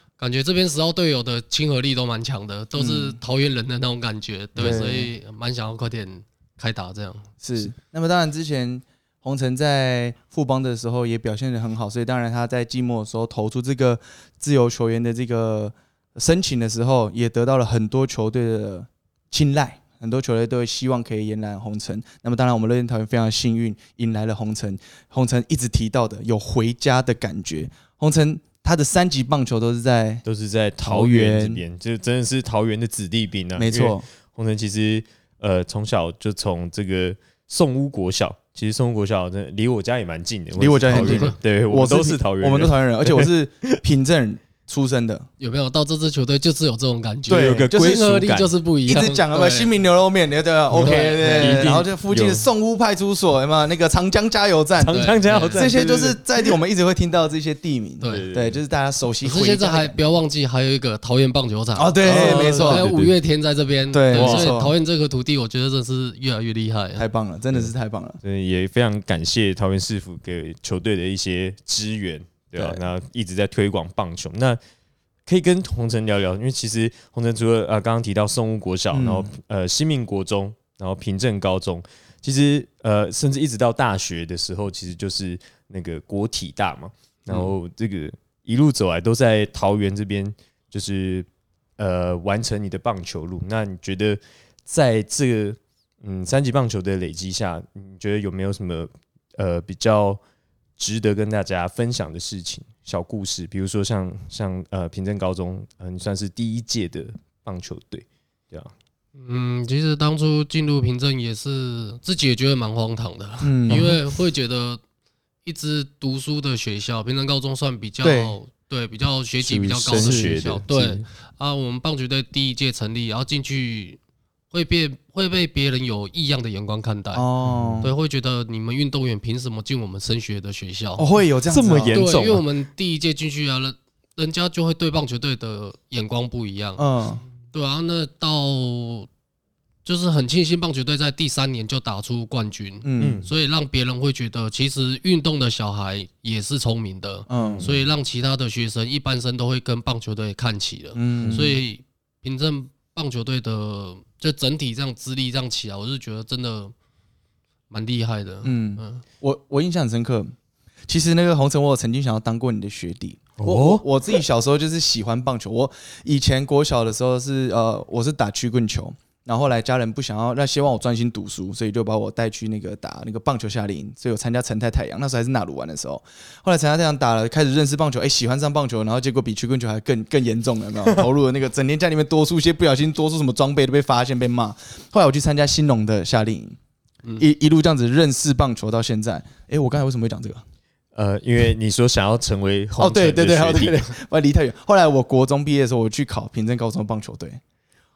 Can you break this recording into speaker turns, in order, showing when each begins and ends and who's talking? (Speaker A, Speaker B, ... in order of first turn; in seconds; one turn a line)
Speaker A: 0.2-7.3
Speaker B: 2.8-3.2
Speaker B: 4.6-5.1
Speaker B: 7.4-30.2
Speaker C: 30.2-43.8
Speaker B: 30.8-31.6
Speaker B: 33.6-34.1
Speaker B: 40.6-45.3
Speaker A: 40.9-41.4
Speaker A: 45.4-49.7
Speaker B: 47.3-48.0
Speaker C: 47.3-48.5
Speaker B: 48.9-60.0
Speaker C: 50.7-52.5
Speaker A: 50.8-51.7
Speaker C: 54.8-56.2
Speaker A: 54.9-55.7
Speaker A: 58.0-58.3
Speaker C: 58.0-58.6
Speaker A: 59.2-67.1
Speaker B: 61.8-62.9
Speaker C: 62.0-63.1
Speaker B: 63.9-64.8
Speaker C: 64.1-64.6
Speaker B: 67.0-68.2
Speaker C: 68.2-74.6
Speaker B: 72.6-72.8
Speaker C: 75.3-91.3
Speaker B: 78.9-79.3
Speaker C: 91.8-100.2
Speaker C: 100.8-108.7
Speaker A: 109.2-114.8
Speaker B: 113.4-114.0
Speaker A: 115.5-124.0
Speaker B: 118.0-118.4
Speaker C: 119.4-121.1
Speaker B: 119.9-120.4
Speaker A: 124.5-127.3
Speaker B: 127.2-127.9
Speaker C: 127.4-127.9
Speaker A: 127.8-131.1
Speaker B: 131.0-132.1
Speaker C: 131.5-132.4
Speaker A: 131.9-136.8
Speaker B: 136.8-137.2
Speaker A: 137.5-139.1
Speaker A: 139.8-156.7
Speaker B: 142.8-143.2
Speaker C: 143.0-143.3
Speaker B: 147.3-147.7
Speaker C: 147.4-147.8
Speaker B: 150.9-151.6
Speaker C: 151.2-151.5
Speaker A: 157.7-159.0
Speaker B: 158.4-160.3
Speaker B: 160.9-186.6
Speaker C: 163.4-163.8
Speaker B: 187.2-190.4
Speaker C: 190.9-193.9
Speaker B: 192.8-197.4